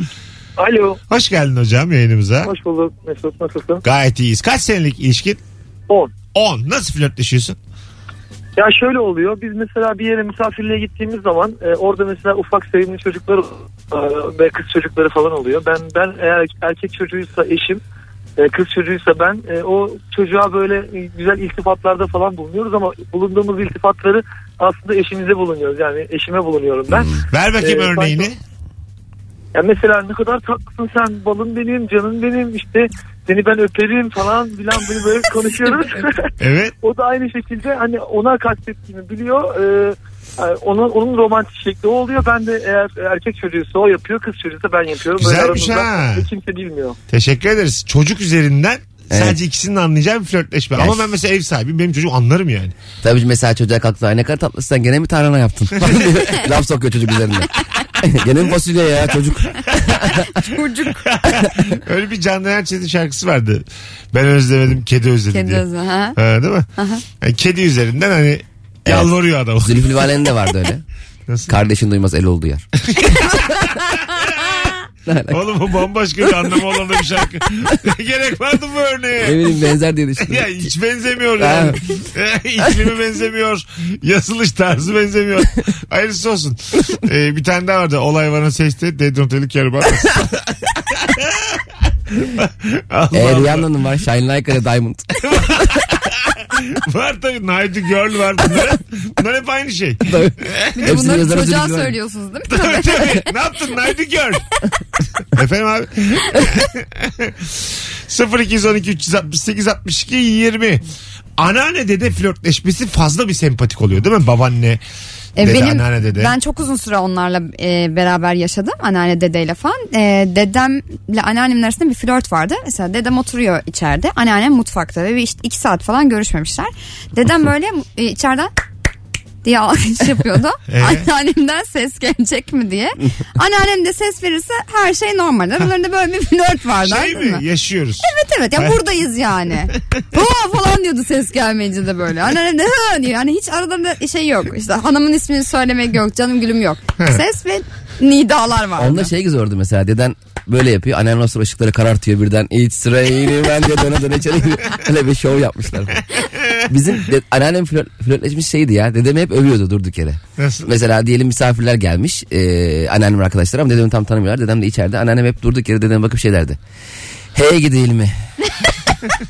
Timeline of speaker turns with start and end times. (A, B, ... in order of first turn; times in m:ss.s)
0:00.6-0:01.0 A
0:01.1-0:02.5 B
0:02.4-0:03.8 A
0:03.8-0:05.4 B
0:06.3-0:07.6 B
0:08.6-0:17.8 A
0:18.4-0:28.3 A
0:27.3-0:28.4 B
0:29.5-0:36.3 A
0:36.4-0:36.7 B
0:36.8-0:47.0 A
0:45.2-0:46.3 B
0:47.1-0:52.7 B
0:49.1-0:49.4 C
0:50.8-0:51.1 C
0:53.0-1:00.2 C
0:55.8-0:56.2 B
1:00.2-1:01.1 D
1:01.0-1:05.6 B
1:05.3-1:06.2 D
1:06.2-1:06.7 B
1:06.8-1:07.0 D
1:07.2-1:10.0 B
1:08.9-1:10.8 C
1:11.3-1:11.6 B
1:11.5-1:12.7 C
1:12.9-1:14.8 B
1:15.1-1:15.4 C
1:15.3-1:19.5 B
1:19.2-1:20.7 C
1:20.2-1:33.7 B
1:21.4-1:21.8 C
1:33.1-1:35.8 C
1:35.2-1:41.2 B
1:40.1-1:41.9 C
1:40.8-1:43.2 D
1:42.5-1:44.4 B
1:45.3-1:50.8 B
1:51.4-1:54.8 B
1:55.4-1:56.3 B
1:55.4-2:08.5 D
2:09.4-2:17.4 D
2:10.7-2:11.1 B
2:16.8-2:18.8 B
2:18.0-2:29.1 D
2:28.8-2:36.0 C
2:36.4-2:36.6 B
2:36.7-2:46.6 C
2:40.4-2:40.7 B
2:47.3-2:48.2 C